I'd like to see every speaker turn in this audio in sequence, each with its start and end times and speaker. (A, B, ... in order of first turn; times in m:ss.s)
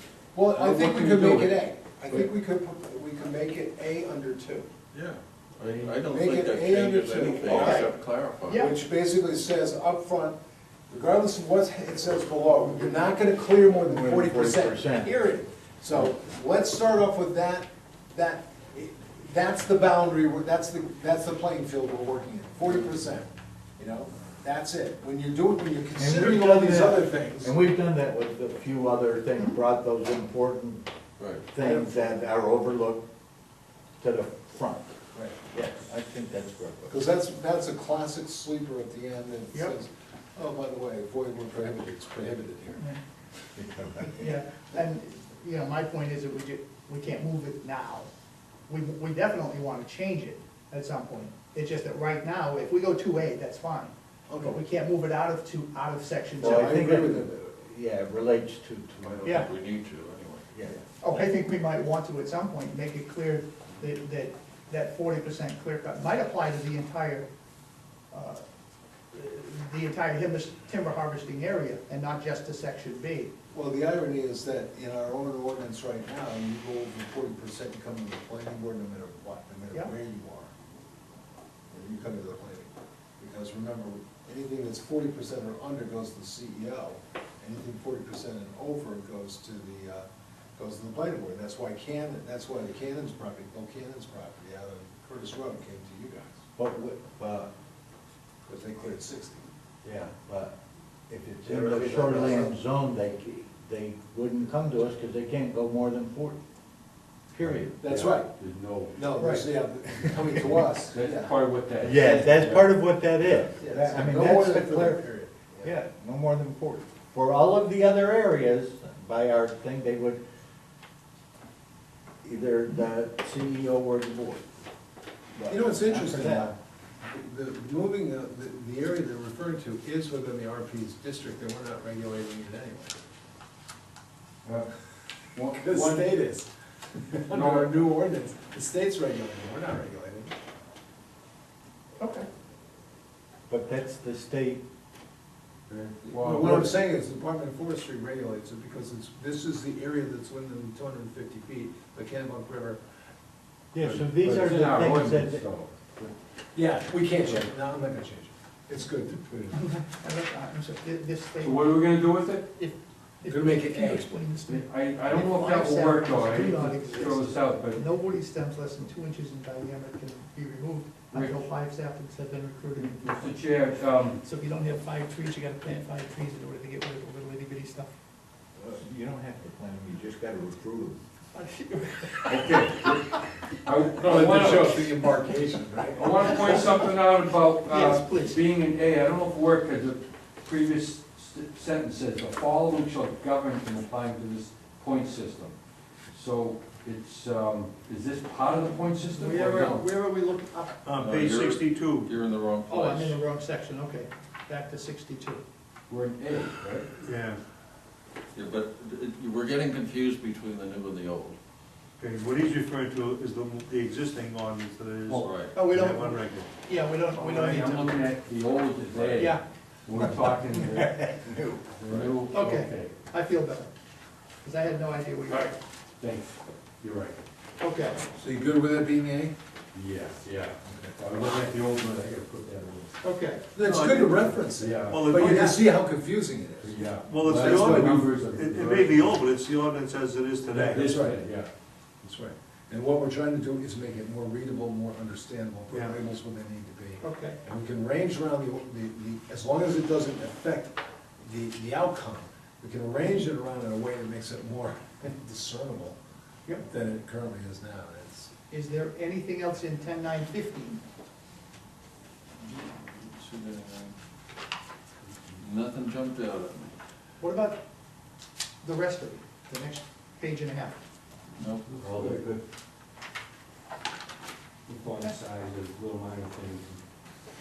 0:00.3-0:04.7 A
0:00.5-0:02.3 B
0:04.9-0:08.7 C
0:06.1-0:07.9 A
0:07.5-0:07.9 D
0:08.5-0:08.7 D
0:08.6-0:10.4 A
0:10.9-0:27.6 A
0:13.8-0:15.1 E
0:26.0-0:30.8 E
0:31.2-0:31.5 C
0:31.5-0:33.0 E
0:31.6-0:32.2 A
0:34.0-0:37.0 E
0:36.9-0:42.8 A
0:43.6-0:44.4 E
0:44.2-0:48.1 D
0:48.7-0:56.8 D
0:54.3-0:54.6 A
0:56.4-0:57.3 A
0:56.4-0:59.5 E
0:59.0-1:00.5 C
1:00.5-1:00.8 E
1:01.0-1:07.3 D
1:08.1-1:08.4 D
1:09.1-1:13.3 D
1:13.5-1:20.5 A
1:21.7-1:36.4 A
1:36.6-1:37.5 E
1:38.4-1:39.5 A
1:39.8-1:40.5 E
1:41.1-1:46.4 E
1:41.4-1:42.5 A
1:47.3-1:48.2 E
1:47.8-1:48.3 A
1:48.4-1:49.1 B
1:48.9-1:51.4 A
1:49.2-1:49.4 D
1:50.9-1:52.7 B
1:51.8-1:55.1 E
1:53.2-1:55.8 A
1:55.6-2:00.2 E
2:02.2-2:04.4 E
2:05.3-2:06.5 E
2:05.5-2:13.0 A
2:14.4-2:14.7 B
2:15.3-2:16.1 B
2:15.5-2:20.3 A
2:17.3-2:17.7 B
2:22.0-2:22.3 D
2:23.5-2:24.6 E
2:25.7-2:26.7 B
2:26.1-2:32.8 A
2:33.7-2:35.4 E
2:33.8-2:36.1 B
2:36.5-2:39.6 A
2:39.5-2:41.7 D
2:41.4-2:42.5 B
2:42.5-2:53.3 D
2:43.3-2:44.2 A
2:44.4-2:47.8 B
2:51.1-2:51.5 B
2:52.8-2:54.2 B
2:54.2-2:57.9 D
2:58.6-3:01.0 E
3:01.3-3:02.6 D
3:02.3-3:04.9 B
3:03.9-3:06.6 A
3:05.9-3:15.6 B
3:06.2-3:06.7 D
3:07.7-3:08.4 D
3:16.1-3:19.9 B
3:18.7-3:20.8 D
3:20.8-3:22.1 F
3:21.0-3:23.2 C
3:22.7-3:25.4 D
3:25.9-3:27.0 B
3:27.0-3:27.4 F
3:28.3-3:31.4 C
3:32.0-3:36.5 F
3:35.2-3:35.6 C
3:35.5-3:38.1 D
3:37.1-3:42.9 B
3:39.2-3:39.4 D
3:40.5-3:41.6 E
3:42.3-3:43.7 D
3:44.4-3:45.6 D
3:45.3-3:47.2 B
3:47.6-3:48.0 D
3:48.1-3:49.4 A
3:49.7-3:52.9 B
3:53.0-3:53.4 D
3:53.5-3:58.2 A
3:53.6-3:55.6 F
3:54.6-3:55.4 B
3:56.6-3:59.2 B
3:57.1-4:00.9 F
4:00.5-4:01.5 B
4:00.7-4:01.2 A
4:02.0-4:16.0 A
4:05.7-4:06.0 F
4:07.0-4:07.4 D
4:16.6-4:18.3 A
4:18.5-4:20.8 D
4:22.4-4:24.0 C
4:25.4-4:26.8 C
4:27.2-4:27.6 D
4:28.6-4:30.8 D
4:31.4-4:31.8 C
4:31.8-4:32.4 B
4:34.6-4:36.8 B